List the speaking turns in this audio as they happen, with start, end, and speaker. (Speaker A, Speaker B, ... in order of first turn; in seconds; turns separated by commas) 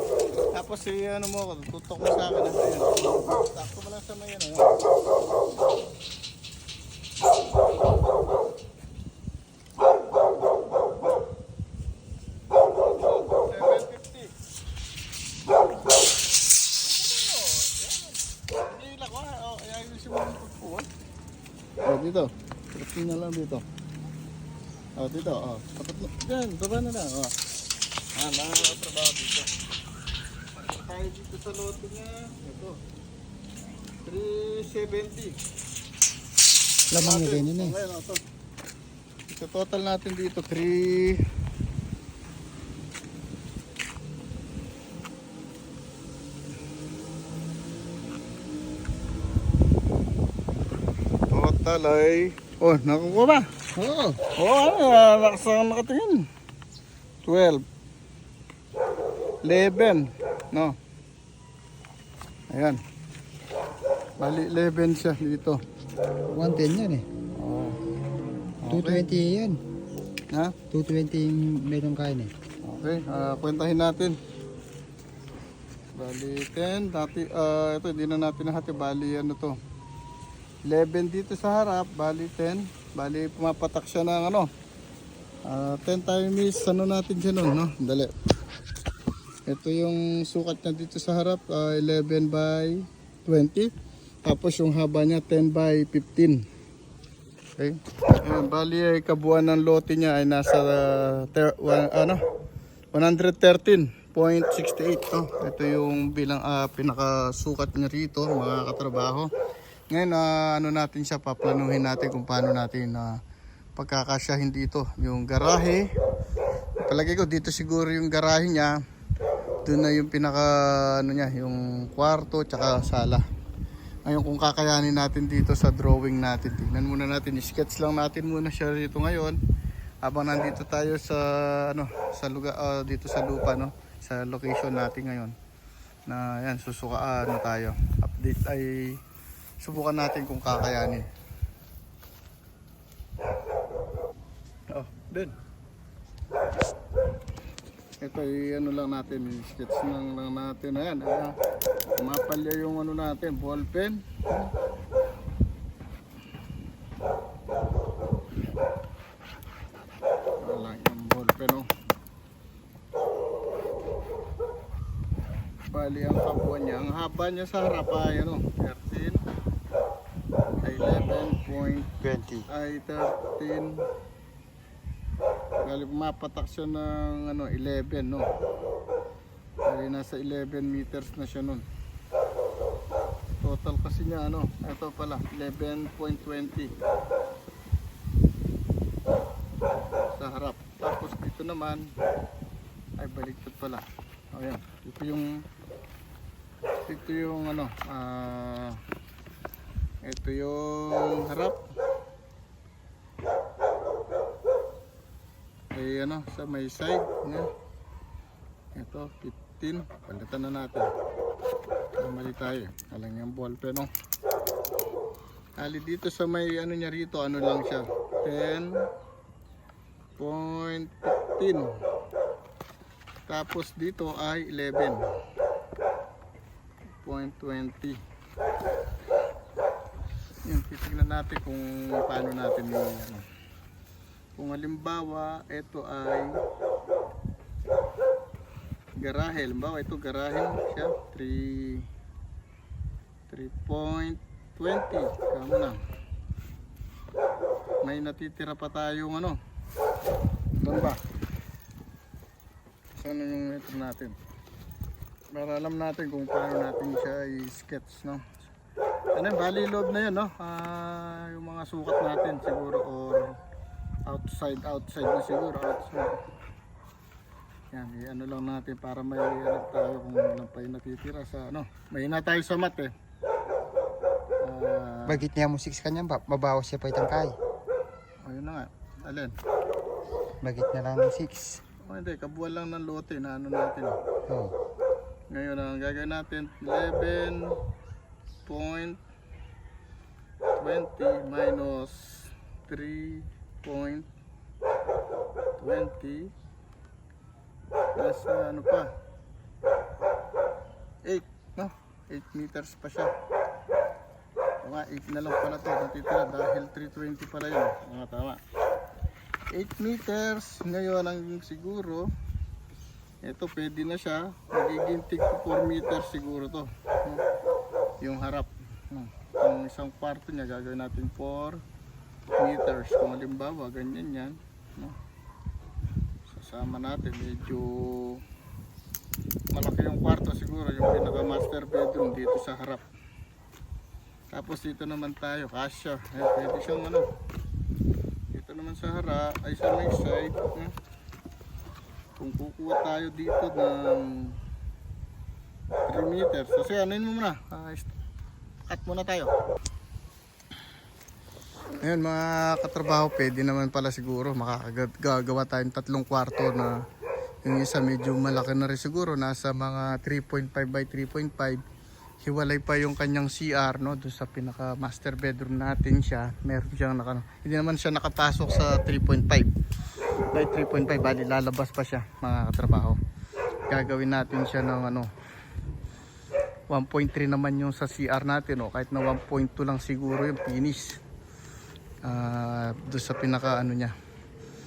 Speaker A: 0.5-4.8, Speaker A: 12.9-14.3, Speaker A: 16.8-20.9, Speaker A: 21.8-23.6, Speaker A: 25.0-27.4, Speaker A: 28.1-29.5, Speaker A: 30.5-32.8, Speaker A: 34.0-35.4, Speaker B: 36.9-37.8, Speaker A: 37.0-38.2, Speaker A: 39.3-41.2, Speaker A: 51.3-53.5, Speaker B: 53.8-54.2, Speaker A: 54.3-56.3, Speaker A: 57.2-57.6, Speaker A: 59.5-60.8, Speaker A: 62.5-62.8, Speaker A: 64.2-65.6, Speaker B: 66.3-67.1, Speaker A: 67.4-67.8, Speaker A: 68.6-69.1, Speaker B: 68.7-69.6, Speaker B: 70.7-72.3, Speaker A: 72.7-74.2, Speaker A: 76.0-79.6, Speaker A: 80.7-84.5, Speaker A: 85.5-88.1, Speaker A: 89.5-93.7, Speaker A: 94.2-96.4, Speaker A: 97.6-102.2, Speaker A: 102.9-109.3, Speaker A: 109.9-113.2, Speaker A: 113.8-115.8, Speaker A: 116.9-118.8, Speaker A: 119.7-123.2, Speaker A: 124.0-129.4, Speaker A: 130.0-135.3, Speaker A: 136.1-139.0, Speaker A: 139.6-141.1, Speaker A: 144.7-145.3, Speaker A: 148.0-151.3, Speaker A: 152.0-154.5, Speaker A: 160.4-161.7, Speaker A: 165.7-169.2, Speaker A: 170.6-173.8, Speaker B: 172.0-172.5, Speaker A: 175.6-178.3, Speaker A: 179.7-181.7, Speaker A: 183.4-186.7, Speaker A: 190.2-191.9, Speaker A: 193.0-195.4, Speaker A: 196.9-198.8, Speaker A: 200.1-201.6, Speaker A: 205.8-207.5, Speaker A: 208.8-210.9, Speaker A: 212.0-213.9, Speaker A: 215.6-218.9, Speaker A: 220.2-221.8, Speaker A: 223.3-225.1, Speaker A: 227.0-228.0, Speaker A: 230.4-233.2, Speaker A: 234.4-236.4, Speaker A: 239.0-241.9, Speaker A: 243.3-245.8, Speaker A: 247.8-249.4, Speaker A: 250.6-251.0, Speaker A: 253.0-254.2, Speaker A: 255.3-258.4, Speaker A: 259.1-263.3, Speaker A: 264.1-266.2, Speaker A: 267.7-272.9, Speaker A: 274.4-275.2, Speaker B: 275.1-277.4, Speaker A: 278.2-279.4, Speaker B: 280.4-281.6, Speaker A: 281.9-284.0, Speaker B: 284.3-284.5, Speaker A: 285.3-287.6, Speaker A: 288.5-289.0, Speaker A: 290.6-294.1, Speaker A: 295.6-296.3, Speaker A: 297.9-298.9, Speaker A: 301.1-303.1, Speaker A: 304.6-308.4, Speaker A: 309.5-312.1, Speaker A: 313.2-317.2, Speaker A: 318.0-321.6, Speaker A: 322.4-325.0, Speaker A: 326.3-328.2, Speaker A: 329.5-332.8, Speaker A: 334.3-337.1, Speaker A: 338.3-340.7, Speaker A: 342.2-344.4, Speaker A: 345.9-347.9, Speaker A: 348.7-349.3, Speaker A: 351.8-356.8, Speaker A: 357.4-361.6, Speaker A: 362.2-369.5, Speaker A: 370.3-373.0, Speaker A: 373.7-375.1, Speaker A: 376.7-381.0, Speaker A: 382.0-383.9